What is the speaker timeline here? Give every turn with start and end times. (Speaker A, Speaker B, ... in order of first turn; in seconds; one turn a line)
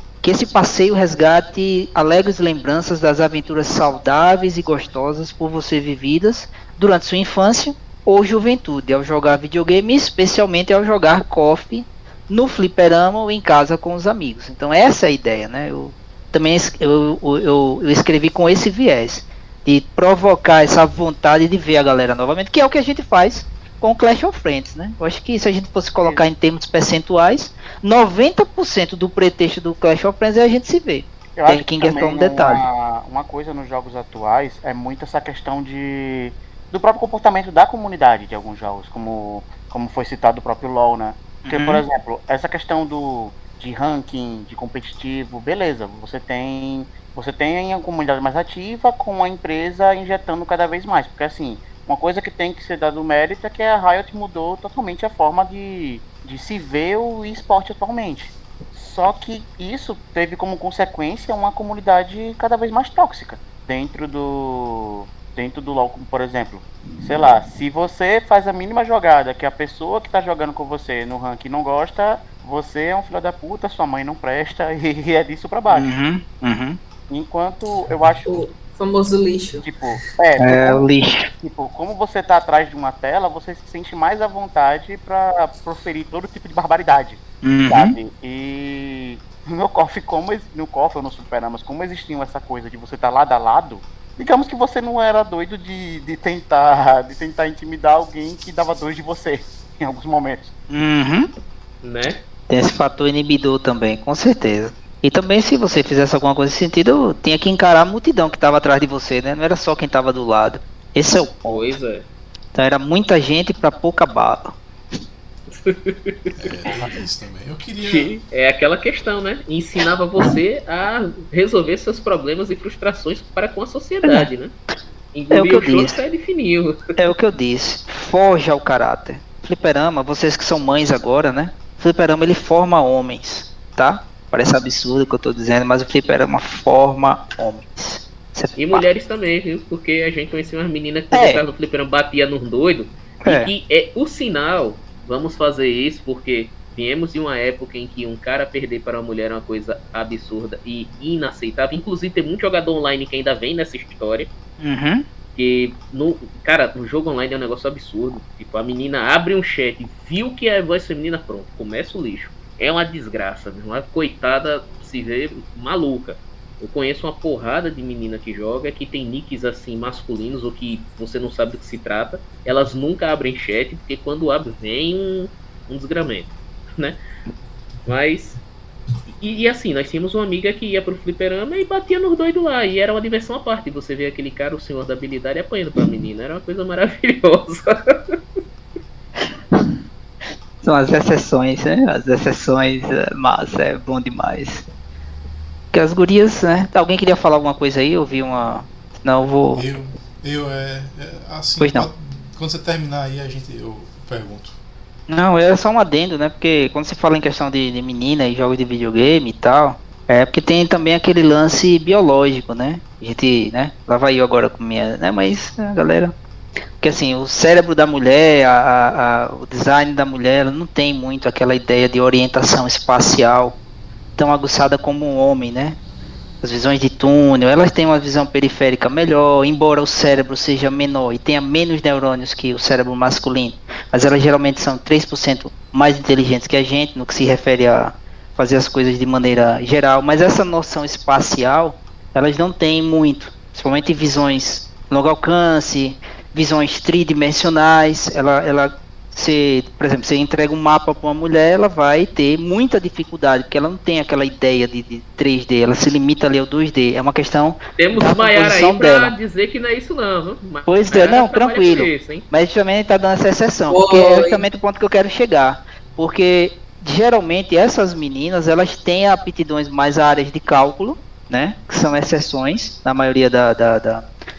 Speaker A: 0.2-32.6
Speaker B: 31.4-75.9
Speaker A: 41.4-41.8
Speaker A: 75.7-76.8
Speaker B: 77.1-78.5
Speaker C: 78.3-80.0
Speaker B: 79.5-80.8
Speaker A: 80.4-81.3
Speaker B: 81.4-100.5
Speaker A: 87.4-88.0
Speaker A: 100.7-101.3
Speaker D: 101.8-102.2
Speaker A: 102.5-111.7
Speaker D: 111.5-112.0
Speaker A: 112.5-114.6
Speaker D: 115.5-116.3
Speaker E: 116.3-118.1
Speaker D: 117.8-124.5
Speaker A: 124.0-124.3
Speaker D: 125.1-126.8
Speaker A: 125.3-126.0
Speaker A: 127.0-138.8
Speaker D: 138.6-154.3
Speaker A: 141.1-141.4
Speaker A: 143.2-143.5
Speaker A: 154.6-155.1
Speaker D: 155.3-177.0
Speaker D: 177.9-178.4
Speaker D: 179.2-188.0
Speaker A: 190.6-194.6
Speaker A: 195.7-199.6
Speaker E: 199.5-204.6
Speaker A: 201.6-201.9
Speaker A: 205.1-216.1
Speaker A: 216.8-223.6
Speaker A: 224.2-225.8
Speaker A: 226.4-259.1
Speaker D: 257.8-262.3
Speaker A: 260.6-274.1
Speaker C: 263.7-264.5